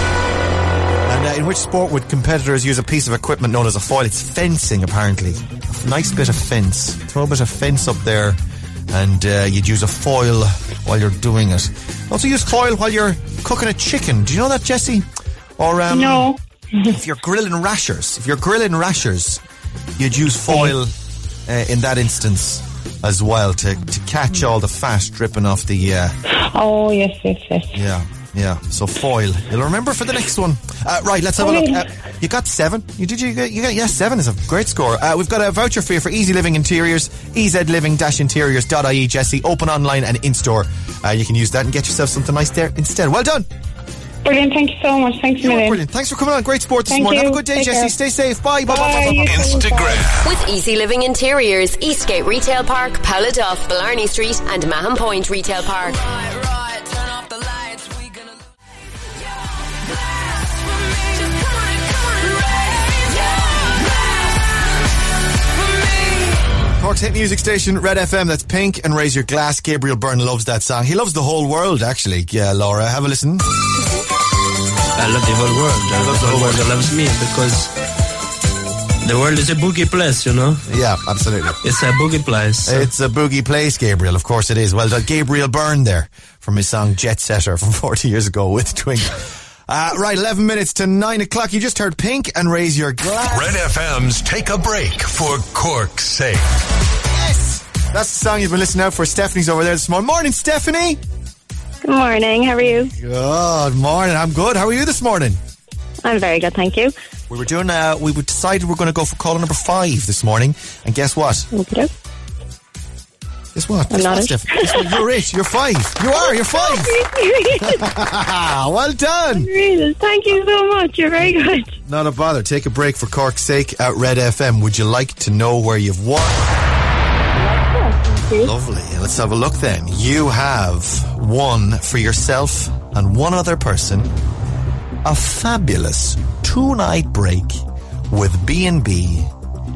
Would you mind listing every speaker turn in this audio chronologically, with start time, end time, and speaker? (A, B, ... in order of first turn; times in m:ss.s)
0:01.0-0:08.4 A
0:08.9-0:15.1 A
0:15.6-0:16.3 A
0:15.9-0:16.9 B
0:16.9-0:19.4 A
0:20.0-0:20.9 A
0:20.5-0:20.7 B
0:21.5-0:26.2 A
0:26.4-0:27.8 B
0:27.7-0:43.5 A
0:31.4-0:31.8 B
0:44.2-0:45.8 B
0:45.4-0:49.6 A
0:46.9-0:47.9 B
0:48.6-0:50.1 B
0:48.8-0:50.3 C
0:50.2-0:56.0 D
1:06.8-1:13.4 A
1:15.0-1:17.7 E
1:15.9-1:16.7 A
1:19.0-1:20.6 E
1:20.7-1:21.6 A
1:21.6-1:22.9 E
1:22.6-1:33.6 A
1:33.2-1:36.4 C
1:37.1-1:41.0 A
1:41.8-1:42.9 F
1:42.9-1:45.4 A
1:46.0-1:46.9 F
1:47.3-1:51.5 A
1:51.5-1:51.9 F
1:53.5-1:56.9 A
1:53.9-1:55.0 F
1:56.1-1:57.8 F
1:57.6-1:59.5 A
1:59.3-2:01.7 F
2:01.8-2:06.5 A
2:07.4-2:08.5 F
2:08.4-2:14.1 A
2:15.0-2:19.3 A